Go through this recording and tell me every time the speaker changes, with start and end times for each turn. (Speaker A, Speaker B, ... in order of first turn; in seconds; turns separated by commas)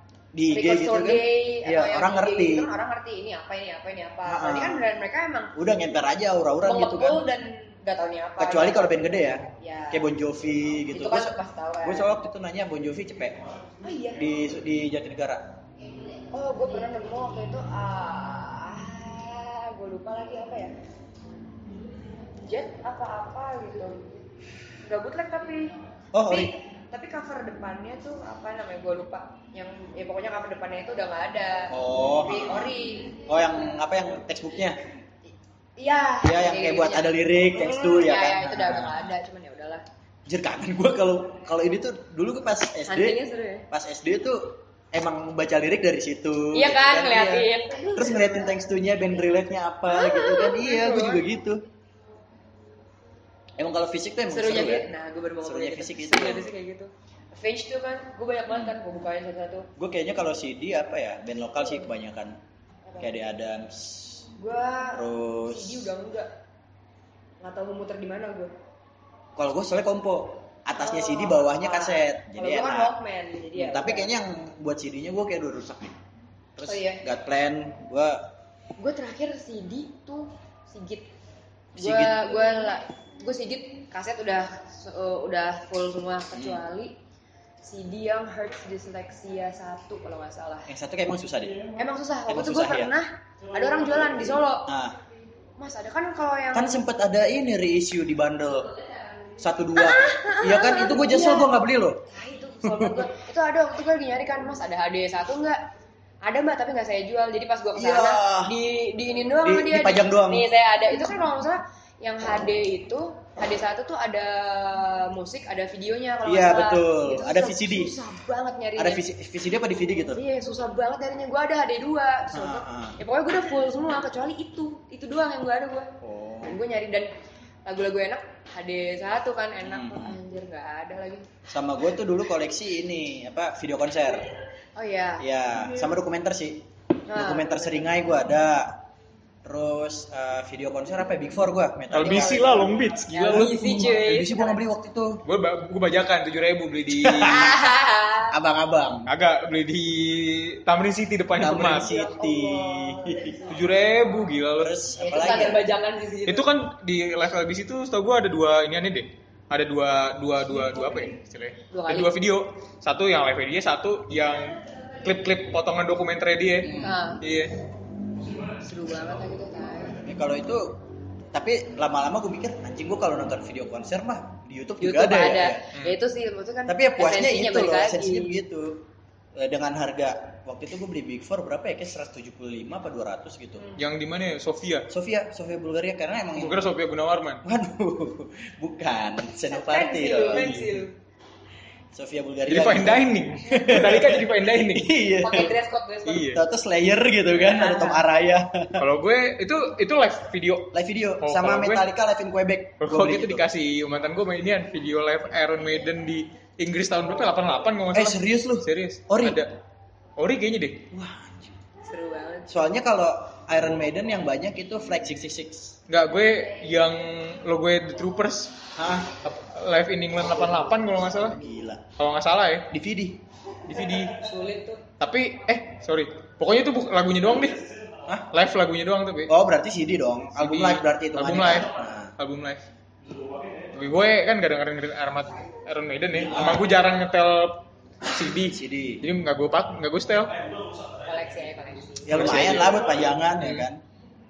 Speaker A: 0.3-2.7, Speaker B: 0.5-5.5, Speaker A: 4.2-4.9, Speaker A: 5.5-7.2, Speaker B: 6.6-10.1, Speaker A: 8.4-13.4, Speaker B: 10.9-12.1, Speaker B: 13.8-14.2, Speaker A: 14.1-15.5, Speaker B: 16.3-20.7, Speaker B: 22.4-24.2, Speaker B: 24.8-25.7, Speaker A: 26.1-26.5, Speaker B: 26.2-33.2, Speaker A: 31.7-34.8, Speaker B: 35.8-39.8, Speaker A: 36.2-39.1, Speaker A: 40.2-43.2, Speaker B: 42.9-43.7, Speaker A: 43.7-51.6, Speaker B: 46.5-48.5, Speaker B: 49.9-51.2, Speaker A: 53.6-54.9, Speaker B: 54.3-59.7, Speaker A: 55.4-56.5, Speaker A: 59.8-62.4, Speaker A: 63.0-64.2, Speaker B: 64.3-66.3, Speaker A: 64.9-65.9, Speaker B: 67.4-68.5, Speaker A: 69.3-72.9, Speaker B: 70.7-74.1, Speaker A: 73.5-76.0, Speaker A: 76.5-78.2, Speaker B: 76.6-77.0, Speaker B: 78.8-81.1, Speaker A: 81.7-82.2, Speaker B: 81.8-86.9, Speaker A: 86.3-86.6, Speaker B: 87.6-90.7, Speaker A: 90.7-91.7, Speaker B: 91.8-94.7, Speaker A: 92.3-92.9, Speaker A: 94.7-95.0, Speaker B: 95.6-96.8, Speaker A: 96.5-98.7, Speaker A: 99.4-102.0, Speaker B: 99.8-105.6, Speaker A: 102.6-103.1, Speaker B: 106.2-119.0, Speaker A: 107.7-108.5, Speaker A: 109.4-110.5, Speaker A: 116.2-117.9, Speaker A: 118.8-120.2, Speaker B: 120.1-125.9, Speaker A: 122.3-123.0, Speaker A: 126.0-126.6, Speaker B: 126.4-127.1, Speaker B: 127.7-131.2, Speaker A: 129.6-130.2, Speaker A: 131.5-134.3, Speaker B: 134.8-135.2, Speaker A: 135.2-138.8, Speaker B: 137.1-137.7, Speaker A: 139.4-142.7, Speaker C: 141.9-143.8, Speaker B: 142.0-144.6, Speaker A: 143.3-145.2, Speaker C: 145.2-147.5, Speaker A: 146.9-147.7, Speaker B: 147.2-148.3, Speaker A: 148.3-149.1, Speaker C: 149.1-151.9, Speaker A: 151.4-153.4, Speaker B: 151.7-153.5, Speaker C: 153.5-154.7, Speaker A: 154.6-155.7, Speaker B: 155.0-156.5, Speaker C: 156.3-167.5, Speaker B: 161.7-162.1, Speaker A: 166.6-167.0, Speaker B: 166.8-167.2, Speaker B: 168.5-170.0, Speaker A: 170.0-170.8, Speaker A: 171.3-175.6, Speaker B: 174.8-178.4, Speaker A: 176.7-183.6, Speaker C: 183.8-184.9, Speaker A: 184.9-186.7, Speaker C: 186.3-187.4, Speaker A: 187.4-190.6, Speaker B: 189.5-190.9, Speaker C: 190.3-190.7, Speaker A: 191.9-195.6, Speaker C: 192.5-194.9, Speaker B: 195.2-196.3, Speaker C: 196.0-196.4, Speaker A: 196.2-198.8, Speaker B: 197.4-198.0, Speaker C: 198.8-201.8, Speaker A: 200.7-203.4, Speaker C: 202.8-209.5, Speaker A: 207.9-209.4, Speaker C: 210.2-210.9, Speaker A: 210.9-211.5, Speaker B: 211.8-212.5, Speaker A: 212.5-215.8, Speaker C: 215.9-218.7, Speaker A: 218.8-219.1, Speaker C: 219.2-221.4, Speaker A: 221.2-221.8, Speaker C: 222.0-222.7, Speaker A: 222.7-223.2, Speaker C: 223.7-224.1, Speaker B: 224.1-224.8, Speaker C: 225.0-227.6, Speaker C: 228.3-229.3, Speaker A: 229.3-232.1, Speaker C: 230.4-232.6, Speaker C: 233.7-240.3, Speaker A: 236.3-236.7, Speaker A: 238.5-239.0, Speaker B: 241.0-242.4, Speaker A: 242.0-243.8, Speaker C: 242.1-242.8, Speaker C: 243.4-243.7